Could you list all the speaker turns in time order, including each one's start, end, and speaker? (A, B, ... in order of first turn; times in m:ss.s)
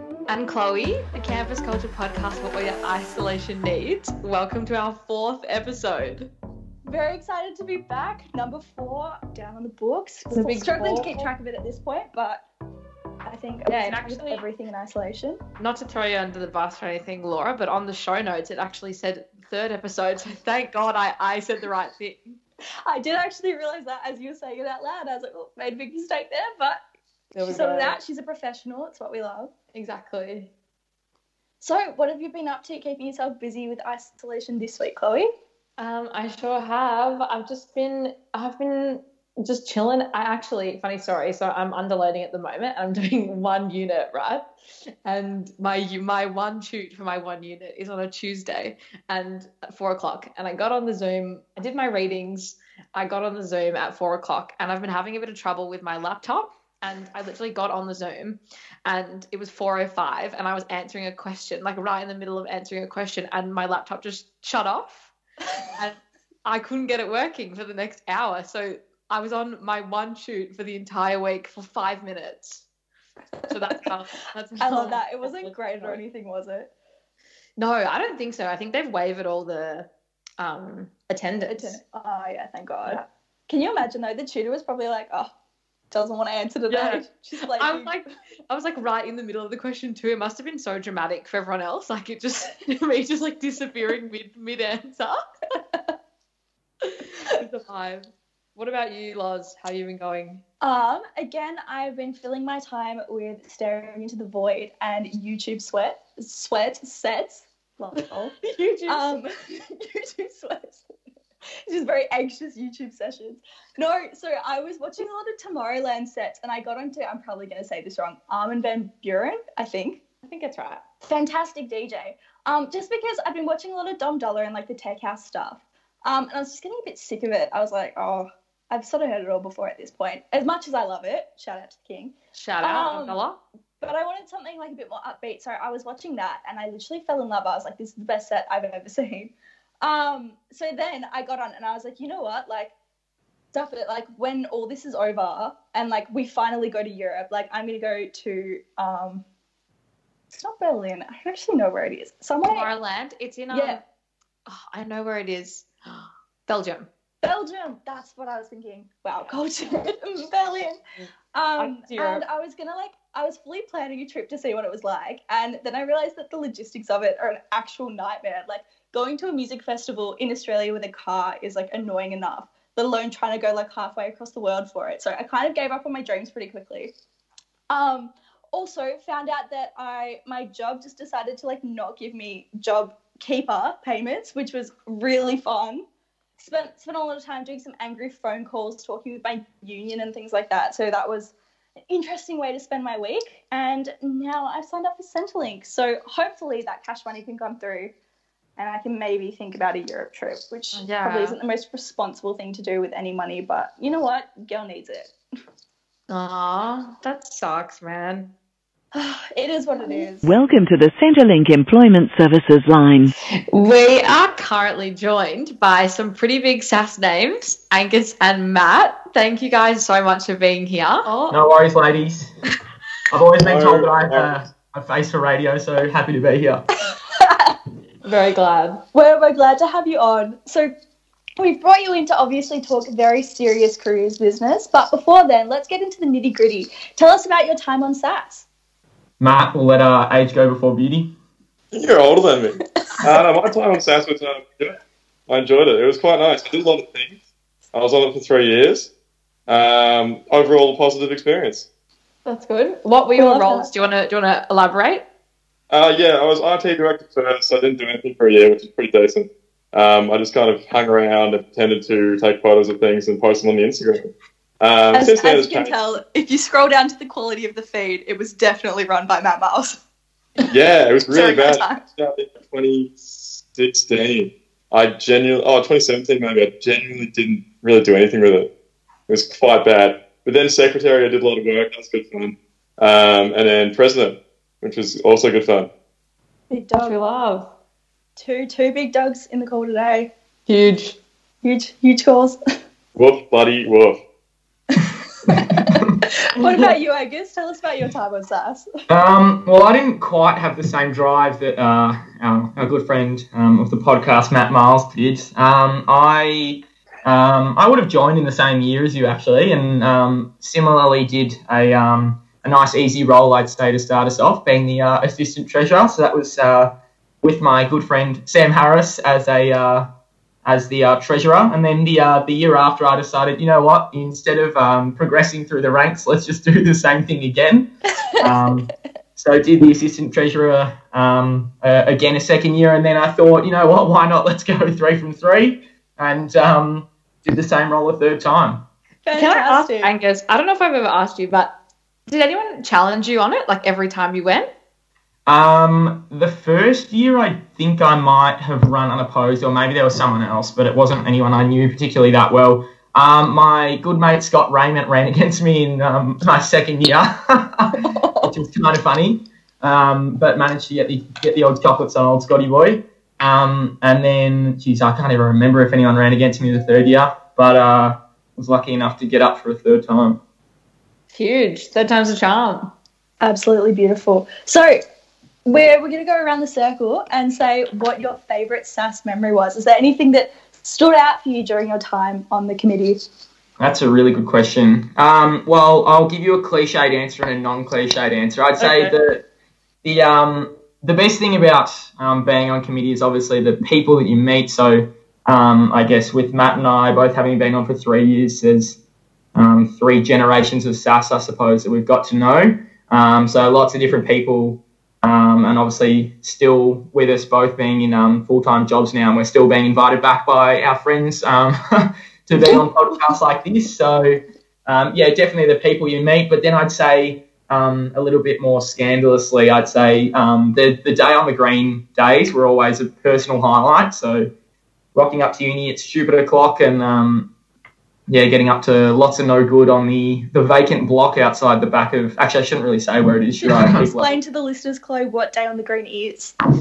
0:00.3-0:06.3 A
0:06.9-0:12.4 B
0:10.3-0:11.3 A
0:13.2-0:15.4 B
0:13.7-0:14.4 A
0:15.6-0:22.4 A
0:22.9-0:26.8 B
0:27.3-0:28.0 A
0:27.4-0:29.5 B
0:29.7-0:30.5 A
0:31.6-0:35.3 B
0:35.8-0:44.4 A
0:45.0-1:05.1 A
1:05.7-1:12.6 A
1:13.5-1:16.0 A
1:14.6-1:16.7 B
1:17.6-1:19.9 A
1:20.4-1:21.8 A
1:21.5-1:25.3 B
1:25.9-1:27.9 B
1:26.7-1:35.2 A
1:36.8-1:40.4 A
1:40.6-1:48.3 B
1:48.0-1:49.2 A
1:48.9-1:49.3 B
1:49.8-1:50.8 B
1:51.7-2:00.0 B
2:00.2-2:00.8 A
2:01.1-2:13.2 B
2:12.4-2:13.4 A
2:13.8-2:22.7 B
2:23.5-2:29.2 B
2:30.3-2:32.7 B
2:32.4-2:33.8 A
2:33.5-2:33.8 B
2:34.5-2:36.9 A
2:37.2-2:40.8 B
2:41.3-2:56.9 B
2:41.6-2:42.2 A
2:57.7-3:05.8 B
3:06.4-3:11.3 B
3:11.9-3:17.9 B
3:18.6-3:25.1 B
3:20.7-3:21.4 A
3:26.1-3:28.3 A
3:28.9-3:30.2 B
3:30.2-3:33.2 C
3:33.5-3:41.4 A
3:41.3-3:42.3 D
3:43.1-3:46.6 D
3:43.4-3:44.3 E
3:47.2-3:47.6 B
3:48.0-3:48.8 A
3:48.9-3:50.7 B
3:51.4-3:58.5 B
3:59.2-4:01.1 D
4:01.7-4:04.8 E
4:05.3-4:07.2 E
4:07.7-4:08.9 E
4:09.5-4:11.7 E
4:12.3-4:15.0 A
4:13.2-4:13.7 B
4:15.7-4:25.8 E
4:24.9-4:29.8 B
4:30.5-4:38.5 E
4:31.1-4:31.8 B
4:39.1-4:45.7 E
4:46.5-4:47.0 B
4:46.8-4:47.5 A
4:48.2-4:50.1 B
4:50.5-4:51.0 A
4:51.4-4:52.4 B
4:53.0-4:54.0 E
4:54.8-4:58.7 B
4:55.6-4:56.0 D
4:58.9-5:19.9 D
5:20.4-5:38.6 D
5:39.0-5:39.9 B
5:39.2-5:41.5 A
5:42.1-5:44.5 A
5:45.3-6:10.2 D
5:57.8-5:58.3 B
6:11.1-6:12.7 A
6:13.2-6:14.8 B
6:15.5-6:23.0 B
6:23.6-6:29.2 D
6:28.6-6:28.9 A
6:29.8-6:38.8 D
6:39.4-7:04.3 D
6:52.4-6:52.7 B
7:05.0-7:07.3 D
7:08.1-7:14.2 D
7:13.4-7:16.4 B